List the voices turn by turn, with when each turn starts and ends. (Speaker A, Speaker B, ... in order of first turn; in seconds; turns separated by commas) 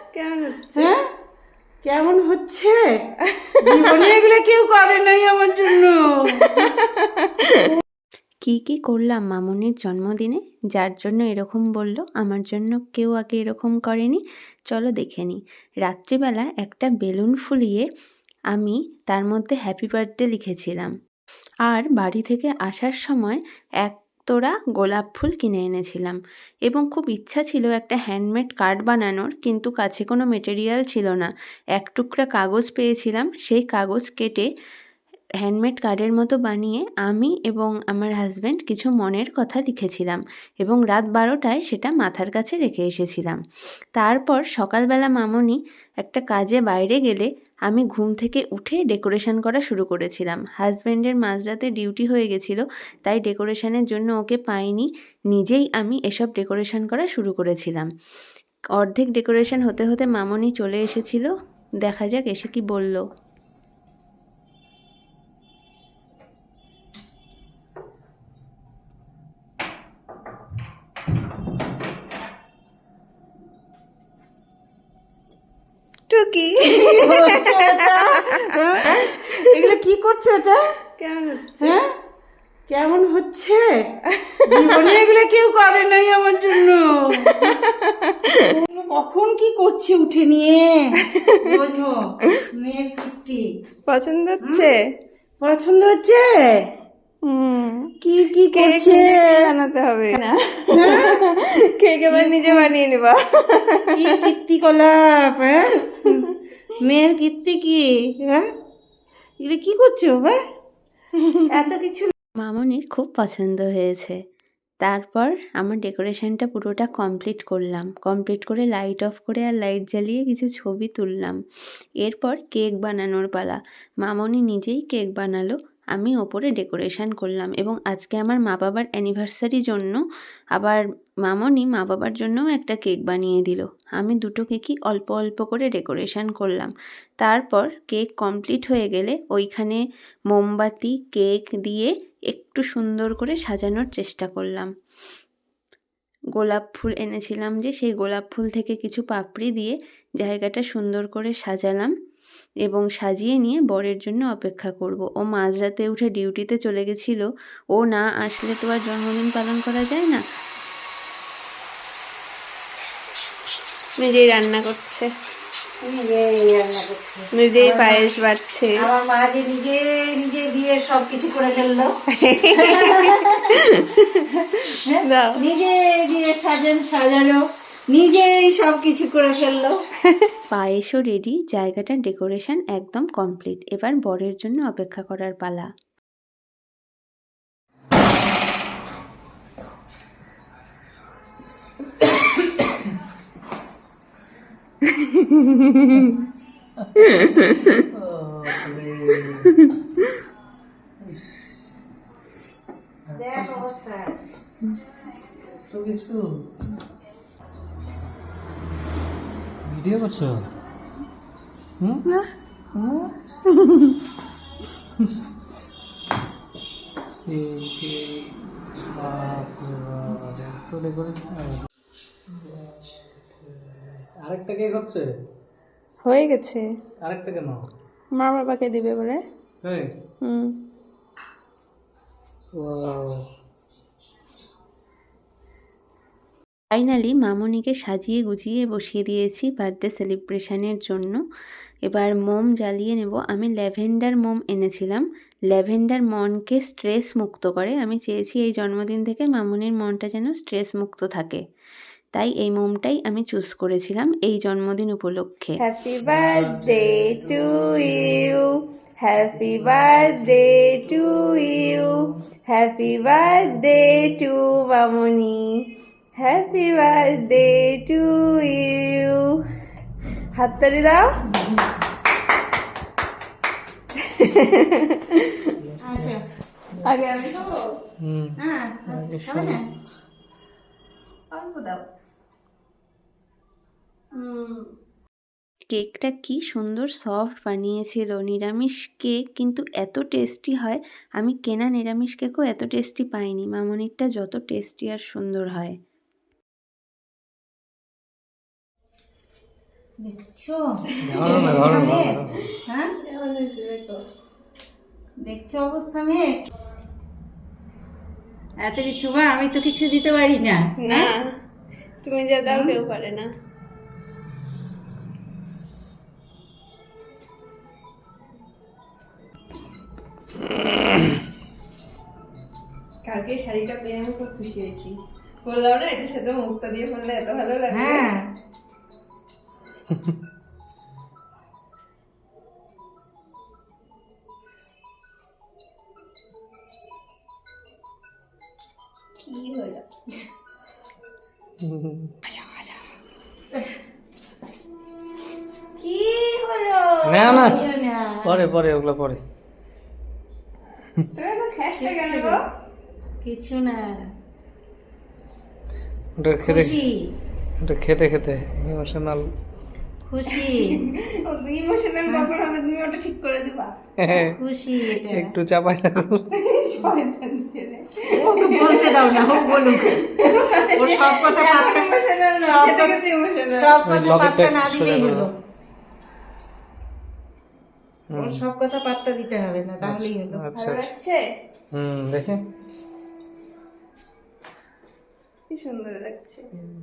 Speaker A: 0.1-0.9, Speaker B: 1.8-2.8, Speaker A: 3.3-3.9, Speaker B: 3.6-6.6, Speaker A: 6.6-7.8, Speaker C: 8.4-17.9, Speaker C: 18.5-20.9, Speaker C: 21.7-34.5, Speaker C: 35.4-43.4, Speaker C: 44.0-57.9, Speaker C: 58.8-61.3, Speaker C: 61.8-63.0, Speaker A: 76.1-79.5, Speaker B: 76.7-80.6, Speaker A: 81.0-81.8, Speaker B: 82.7-83.7, Speaker A: 84.1-84.8, Speaker B: 84.5-87.5, Speaker A: 87.3-88.6, Speaker B: 88.5-92.0, Speaker A: 91.0-91.6, Speaker B: 92.5-93.4, Speaker A: 93.9-94.8, Speaker B: 94.4-94.7, Speaker B: 95.4-96.3, Speaker A: 97.2-97.9, Speaker B: 98.0-99.4, Speaker A: 98.5-104.2, Speaker B: 100.7-101.2, Speaker B: 102.1-102.7, Speaker B: 104.0-106.2, Speaker B: 106.8-108.5, Speaker B: 109.4-110.4, Speaker B: 111.5-112.1, Speaker C: 112.4-114.2, Speaker C: 114.8-121.4, Speaker C: 122.0-130.0, Speaker C: 130.6-139.8, Speaker C: 140.3-144.7, Speaker C: 146.4-151.9, Speaker C: 152.7-160.2, Speaker A: 164.0-165.1, Speaker B: 165.8-168.1, Speaker A: 167.4-168.8, Speaker B: 168.8-171.9, Speaker A: 172.1-174.3, Speaker B: 172.5-173.6, Speaker B: 174.7-177.4, Speaker A: 175.1-175.4, Speaker B: 177.9-179.8, Speaker C: 180.5-185.7, Speaker A: 194.9-196.0, Speaker D: 196.8-199.7, Speaker A: 197.1-197.8, Speaker D: 201.1-201.3, Speaker D: 203.1-203.7, Speaker B: 203.2-204.2, Speaker D: 205.6-206.4, Speaker D: 209.7-210.4, Speaker D: 211.8-212.1, Speaker A: 212.1-214.0, Speaker D: 217.3-218.3, Speaker D: 218.9-221.6, Speaker D: 222.3-225.1, Speaker A: 226.1-226.7, Speaker D: 227.1-227.6, Speaker A: 228.1-229.2, Speaker D: 229.6-229.9, Speaker A: 230.2-230.6, Speaker D: 232.6-233.2, Speaker C: 236.7-241.2, Speaker C: 241.9-251.4, Speaker C: 252.1-255.6, Speaker A: 255.6-262.0, Speaker D: 256.1-257.3, Speaker D: 259.4-260.9, Speaker A: 262.5-269.4, Speaker A: 270.3-271.1, Speaker A: 274.0-275.5, Speaker D: 275.6-276.1, Speaker B: 275.8-276.2, Speaker A: 276.8-277.7, Speaker D: 278.0-278.3, Speaker B: 278.4-279.6, Speaker D: 278.9-279.6, Speaker A: 281.3-281.9, Speaker A: 284.1-284.7, Speaker C: 285.7-295.8, Speaker B: 300.0-300.7, Speaker A: 300.9-301.7, Speaker D: 301.0-302.4, Speaker B: 301.2-302.9, Speaker A: 303.1-304.0, Speaker B: 305.2-306.4, Speaker B: 308.6-311.1, Speaker A: 310.8-311.4, Speaker A: 312.0-313.3, Speaker B: 312.5-312.8, Speaker A: 323.1-328.1, Speaker B: 327.7-328.2, Speaker A: 339.2-339.9, Speaker D: 341.6-342.1, Speaker A: 345.8-347.6, Speaker D: 347.1-347.7, Speaker B: 347.3-348.5, Speaker D: 348.2-349.2, Speaker A: 351.2-352.4, Speaker B: 351.8-352.4, Speaker B: 353.2-354.1, Speaker D: 356.2-356.8, Speaker B: 356.5-357.1, Speaker D: 357.6-359.3, Speaker B: 360.1-360.9, Speaker A: 360.3-363.8, Speaker D: 364.0-364.4, Speaker B: 364.1-365.3, Speaker D: 364.9-366.2, Speaker A: 366.3-373.7, Speaker B: 368.2-373.0, Speaker B: 373.5-375.3, Speaker D: 373.9-375.3, Speaker D: 378.1-378.4, Speaker B: 378.1-380.4, Speaker D: 379.8-380.9, Speaker A: 380.5-381.2, Speaker D: 381.7-382.4, Speaker A: 385.5-386.4